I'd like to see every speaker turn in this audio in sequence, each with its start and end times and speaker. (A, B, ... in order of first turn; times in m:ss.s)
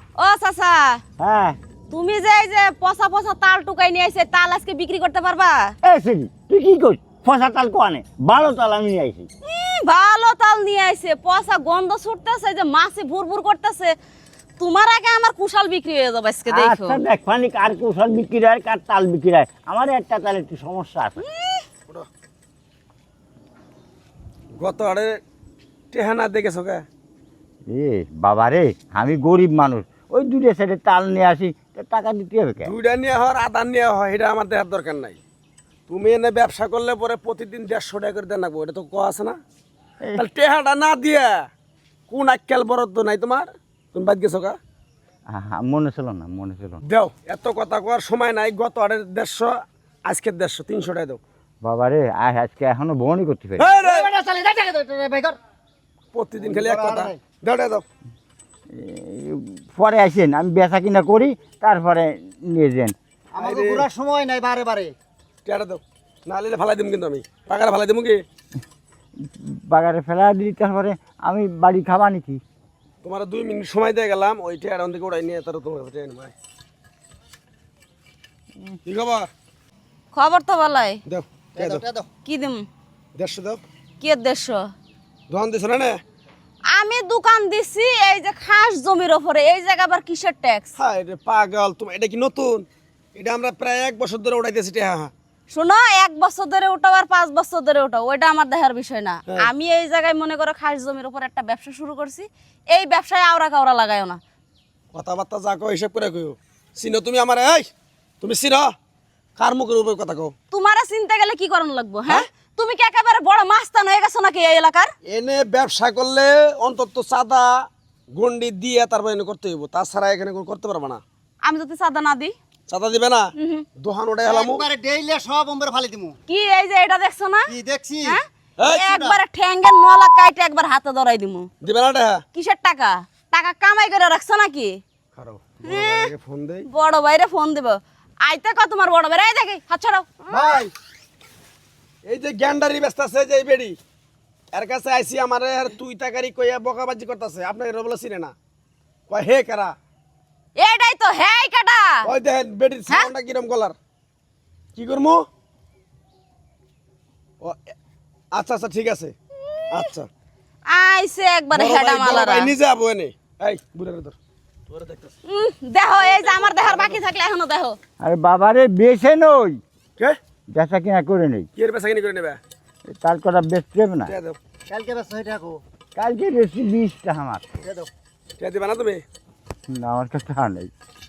0:00.2-0:01.0 A
0:01.2-0:01.6 B
0:01.9-0:05.7 A
0:05.8-0:09.3 B
0:09.4-0:13.9 A
0:14.6-0:17.0 A
0:16.5-0:21.2 B
0:21.2-0:21.6 A
0:24.6-0:25.2 C
0:25.9-0:26.8 C
0:27.7-0:32.7 B
0:32.6-0:35.2 C
0:35.9-0:39.4 C
0:40.2-0:41.3 C
0:42.1-0:44.6 C
0:45.3-0:46.8 B
0:46.8-0:51.2 C
0:51.6-0:53.7 B
0:53.6-0:54.1 C
0:53.8-0:55.4 D
0:56.1-0:57.8 C
0:56.4-0:57.2 D
0:58.8-1:03.0 B
1:03.4-1:04.9 D
1:03.4-1:03.9 C
1:05.4-1:08.2 C
1:09.4-1:12.4 B
1:13.0-1:16.3 C
1:18.9-1:19.3 C
1:20.1-1:21.0 A
1:21.0-1:21.8 C
1:21.6-1:22.1 D
1:22.3-1:22.7 A
1:23.2-1:23.6 C
1:24.0-1:24.7 A
1:25.3-1:26.0 C
1:26.7-1:30.8 A
1:30.8-1:35.1 C
1:35.5-1:44.2 A
1:44.9-1:47.7 C
1:48.2-1:48.7 C
1:49.4-1:50.3 C
1:50.5-1:54.9 A
1:55.0-1:57.5 C
1:58.1-2:01.0 C
2:01.4-2:02.4 A
2:02.7-2:04.6 C
2:03.4-2:03.7 A
2:04.3-2:06.2 D
2:06.3-2:07.5 A
2:07.5-2:08.2 D
2:08.1-2:11.5 A
2:08.6-2:08.9 C
2:08.9-2:09.2 D
2:11.6-2:12.2 C
2:12.3-2:14.8 A
2:15.2-2:16.7 C
2:15.6-2:16.1 A
2:16.7-2:20.6 A
2:20.3-2:20.7 C
2:22.1-2:23.8 C
2:24.5-2:28.3 C
2:29.1-2:29.8 C
2:30.6-2:32.1 A
2:32.0-2:33.8 C
2:34.8-2:35.2 C
2:38.3-2:39.1 C
2:39.7-2:40.1 C
2:40.7-2:42.5 A
2:41.5-2:44.2 C
2:44.7-2:45.1 C
2:45.3-2:47.8 A
2:46.0-2:47.0 C
2:48.0-2:49.6 B
2:50.6-2:51.5 B
2:51.6-2:52.4 C
2:53.0-2:54.1 B
2:54.1-2:54.4 C
2:54.7-2:55.6 D
2:56.0-2:57.4 B
2:57.6-2:57.9 D
2:58.4-2:59.0 C
2:59.7-3:00.7 B